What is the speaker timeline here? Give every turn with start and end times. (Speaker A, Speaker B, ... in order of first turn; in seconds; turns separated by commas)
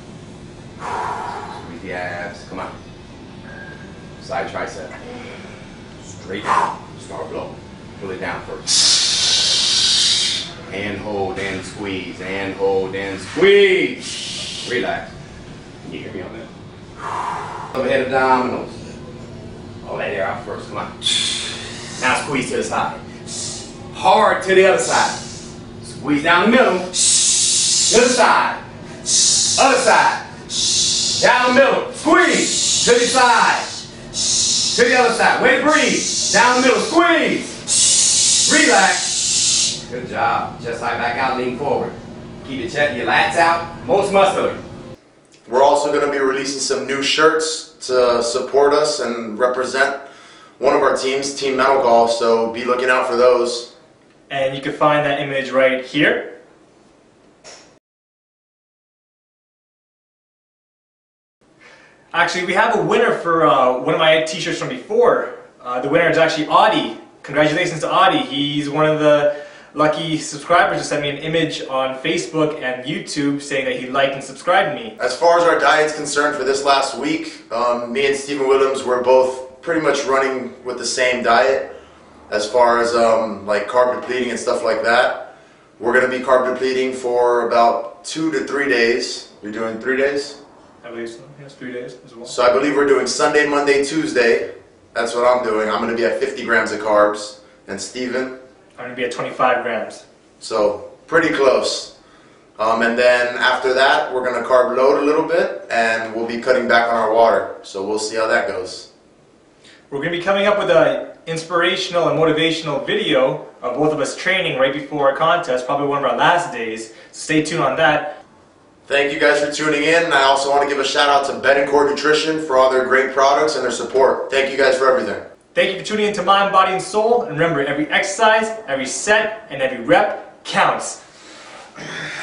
Speaker A: 1.2-2.7, Speaker A: 4.2-5.0, Speaker A: 6.1-8.9, Speaker A: 10.7-15.1, Speaker A: 15.8-16.5, Speaker A: 17.7-18.8, Speaker A: 19.8-21.2, Speaker A: 22.0-23.0, Speaker A: 23.9-25.2, Speaker A: 25.8-27.0, Speaker A: 27.8-28.6, Speaker A: 29.6-30.3, Speaker A: 31.1-33.7, Speaker A: 34.7-37.6, Speaker A: 38.3-44.6, Speaker B: 45.5-50.0, Speaker B: 50.6-53.7, Speaker C: 54.3-56.4, Speaker C: 62.1-75.0, Speaker B: 75.0-81.7, Speaker B: 82.3-90.4, Speaker C: 90.8-92.3, Speaker B: 92.3-98.4, Speaker C: 98.8-100.0, Speaker B: 100.4-101.9, Speaker B: 102.6-108.9, Speaker C: 109.9-118.2, Speaker B: 118.9-125.2, Speaker C: 125.5-131.0